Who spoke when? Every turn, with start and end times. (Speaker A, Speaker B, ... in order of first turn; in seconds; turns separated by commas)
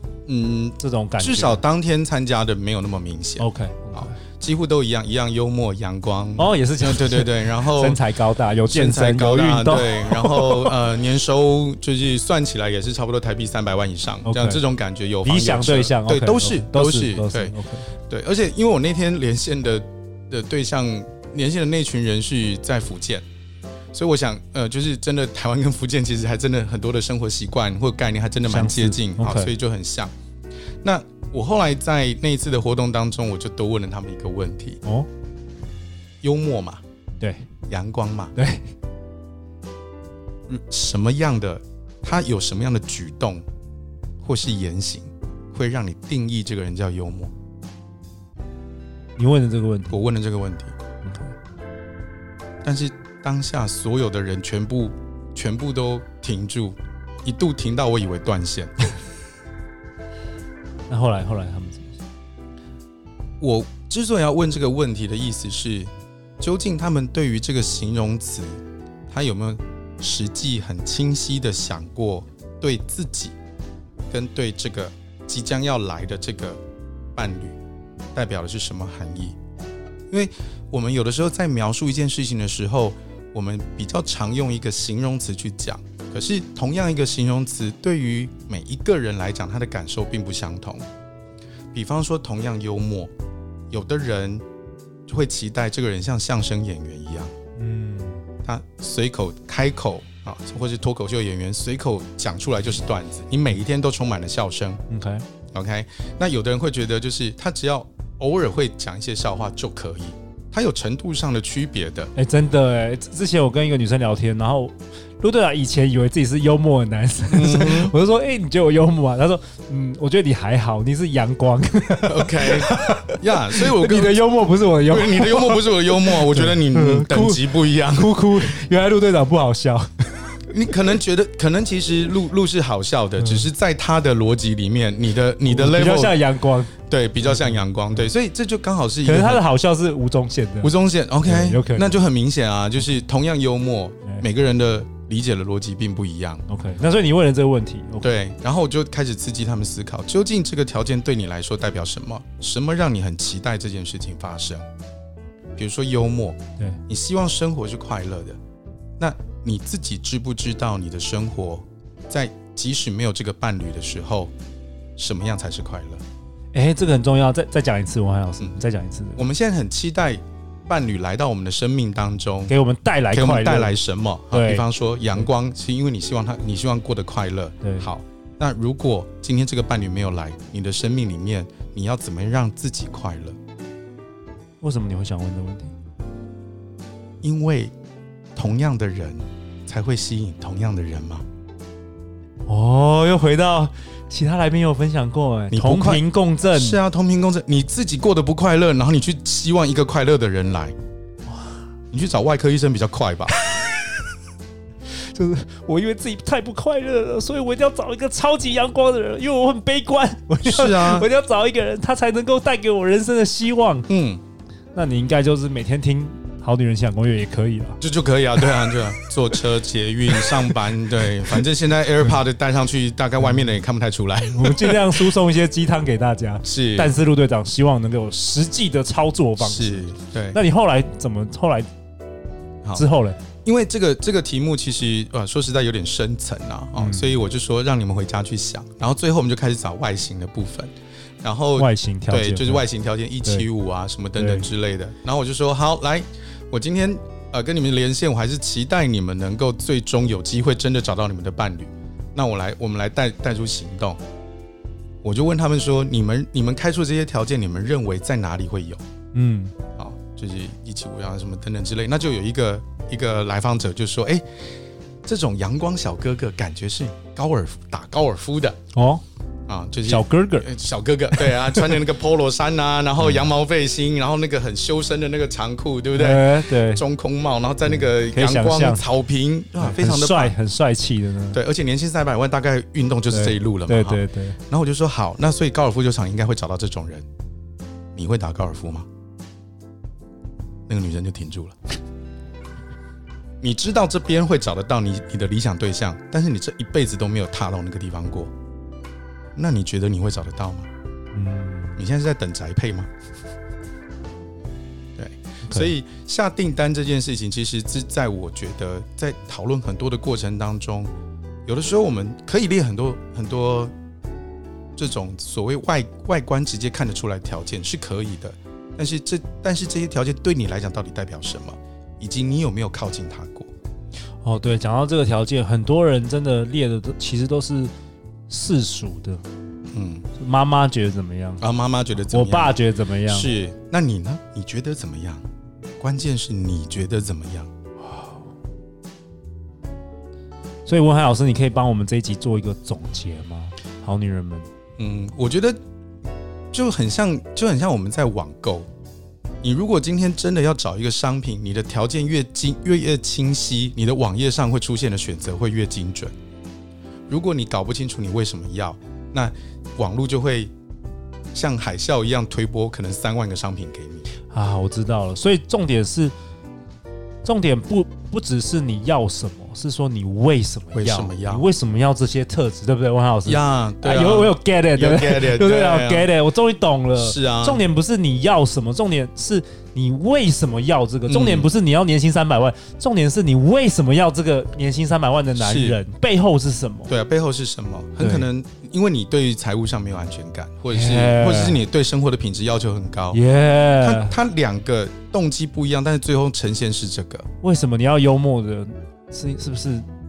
Speaker A: 0.3-8.0, Speaker B: 0.8-1.6, Speaker B: 3.4-4.2, Speaker B: 6.4-10.7, Speaker A: 8.7-17.5, Speaker B: 14.2-14.6, Speaker B: 15.2-17.9, Speaker A: 18.1-23.2, Speaker A: 23.9-30.1, Speaker B: 28.5-29.5, Speaker A: 30.8-34.8, Speaker A: 36.2-36.8, Speaker B: 37.2-37.5, Speaker A: 37.7-38.3, Speaker B: 38.4-38.6, Speaker A: 40.5-43.4, Speaker A: 44.2-47.3, Speaker B: 49.2-50.0, Speaker A: 49.9-50.7, Speaker B: 51.0-51.3, Speaker A: 52.6-58.9, Speaker B: 60.9-62.0, Speaker A: 63.4-73.3, Speaker A: 74.1-76.6, Speaker A: 77.1-77.6, Speaker A: 78.1-79.4, Speaker A: 80.1-90.8, Speaker A: 91.7-93.1, Speaker A: 93.7-94.4, Speaker A: 95.1-97.3, Speaker B: 97.6-98.2, Speaker A: 98.4-104.8, Speaker B: 104.9-105.2, Speaker A: 105.5-112.1, Speaker B: 112.2-130.0, Speaker A: 117.3-118.0, Speaker A: 122.0-124.2, Speaker A: 124.8-128.4, Speaker A: 130.5-136.2, Speaker B: 133.2-133.4, Speaker B: 135.4-136.7, Speaker A: 136.9-139.4, Speaker B: 137.3-137.6, Speaker B: 139.0-142.0, Speaker A: 140.6-146.4, Speaker B: 146.5-148.2, Speaker A: 148.0-154.7, Speaker A: 155.6-158.4, Speaker A: 159.0-164.3, Speaker A: 165.0-166.0, Speaker B: 166.5-169.2, Speaker A: 169.2-172.5, Speaker B: 172.5-173.7, Speaker A: 173.1-183.4, Speaker B: 174.3-175.3, Speaker B: 177.6-177.9, Speaker B: 184.6-185.7, Speaker A: 187.2-187.7, Speaker A: 188.3-191.2, Speaker B: 192.5-196.8, Speaker A: 195.5-200.7, Speaker A: 201.9-203.3, Speaker B: 203.4-204.0, Speaker B: 204.9-213.9, Speaker A: 210.4-211.1, Speaker A: 213.9-214.2, Speaker B: 214.7-217.8, Speaker A: 217.8-225.1, Speaker B: 218.4-218.7, Speaker B: 220.1-220.5, Speaker B: 224.3-231.7, Speaker A: 226.4-226.9, Speaker A: 229.4-230.4, Speaker B: 232.7-233.2, Speaker A: 233.4-254.0, Speaker B: 236.8-237.1, Speaker B: 241.6-242.6, Speaker B: 244.2-244.5, Speaker A: 255.0-258.8, Speaker B: 259.1-259.5, Speaker A: 259.8-264.2, Speaker A: 265.0-268.6, Speaker B: 268.7-269.0, Speaker A: 269.5-280.4, Speaker B: 269.8-270.5, Speaker B: 271.2-271.8, Speaker B: 275.9-276.8, Speaker B: 277.7-278.8, Speaker B: 279.6-281.4, Speaker A: 281.3-287.1, Speaker B: 283.1-284.4, Speaker A: 287.9-288.9, Speaker A: 290.7-291.7, Speaker A: 293.4-298.3, Speaker A: 299.4-300.7, Speaker B: 301.1-301.8, Speaker A: 301.8-302.9, Speaker A: 305.0-310.9, Speaker B: 305.5-305.7, Speaker A: 311.4-313.7, Speaker A: 314.8-323.5, Speaker B: 324.2-327.7, Speaker B: 328.3-329.2, Speaker A: 329.7-330.1, Speaker B: 330.1-331.4, Speaker A: 331.4-335.2, Speaker B: 332.1-333.3, Speaker A: 335.8-337.5, Speaker B: 337.9-338.2, Speaker B: 340.7-344.5, Speaker A: 344.8-345.6, Speaker A: 346.5-348.7, Speaker A: 349.4-356.1, Speaker A: 357.1-360.5, Speaker A: 361.3-364.0, Speaker B: 364.3-366.1, Speaker B: 367.2-386.9, Speaker A: 370.7-371.5, Speaker A: 373.2-376.1, Speaker A: 377.0-377.6, Speaker A: 381.1-381.5, Speaker A: 385.4-385.8, Speaker A: 386.9-393.2, Speaker B: 388.0-388.3, Speaker B: 390.7-391.6, Speaker B: 393.1-394.1, Speaker A: 393.8-397.3, Speaker B: 397.4-399.8